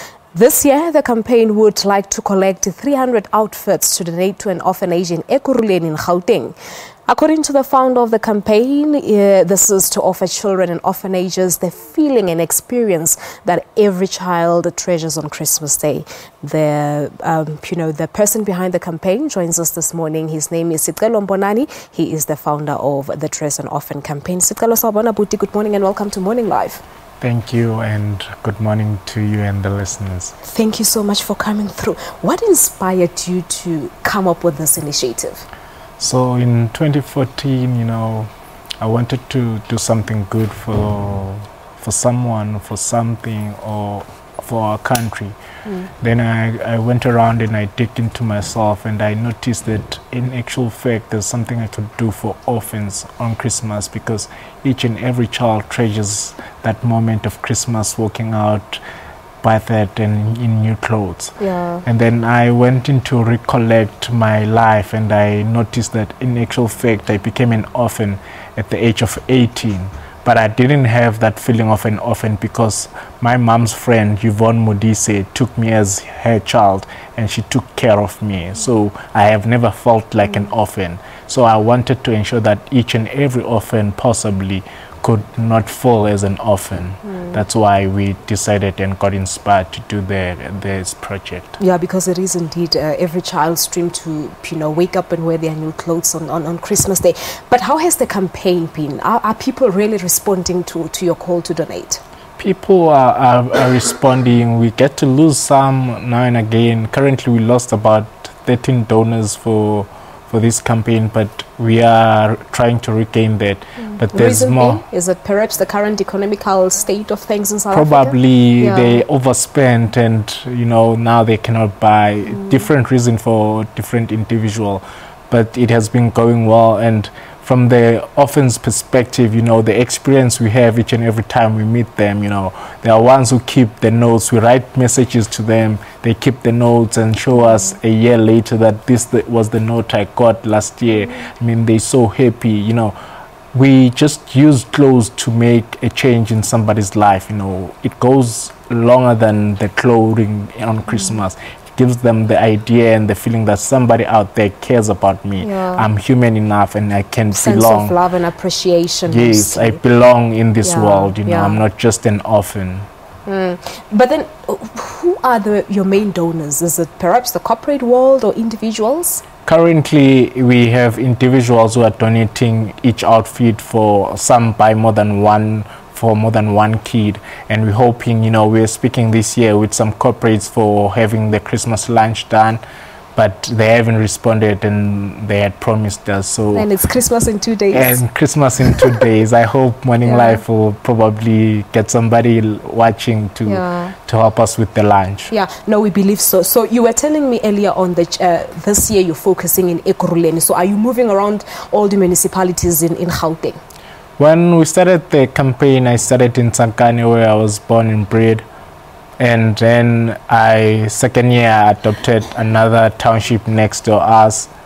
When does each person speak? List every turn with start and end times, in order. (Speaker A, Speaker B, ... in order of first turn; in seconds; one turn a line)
Speaker A: 0.3-6.5
Speaker A: 7.1-26.8
Speaker B: 27.2-30.3
Speaker A: 30.4-35.5
Speaker B: 36.0-38.3
Speaker B: 38.8-45.4
Speaker B: 46.0-58.8
Speaker B: 59.4-91.6
Speaker A: 61.4-61.8
Speaker A: 91.6-102.0
Speaker B: 102.4-114.8
Speaker A: 114.1-119.0
Speaker B: 117.7-142.9
Speaker B: 143.5-157.9
Speaker A: 155.4-155.8
Speaker A: 157.3-159.8
Speaker B: 159.1-162.9
Speaker A: 160.6-161.6
Speaker A: 163.2-169.2
Speaker B: 169.4-182.6
Speaker B: 183.1-186.7
Speaker A: 186.5-188.0
Speaker B: 187.7-195.3
Speaker A: 190.0-190.4
Speaker A: 193.4-193.9
Speaker A: 195.3-203.6
Speaker B: 204.2-208.4
Speaker B: 209.2-214.5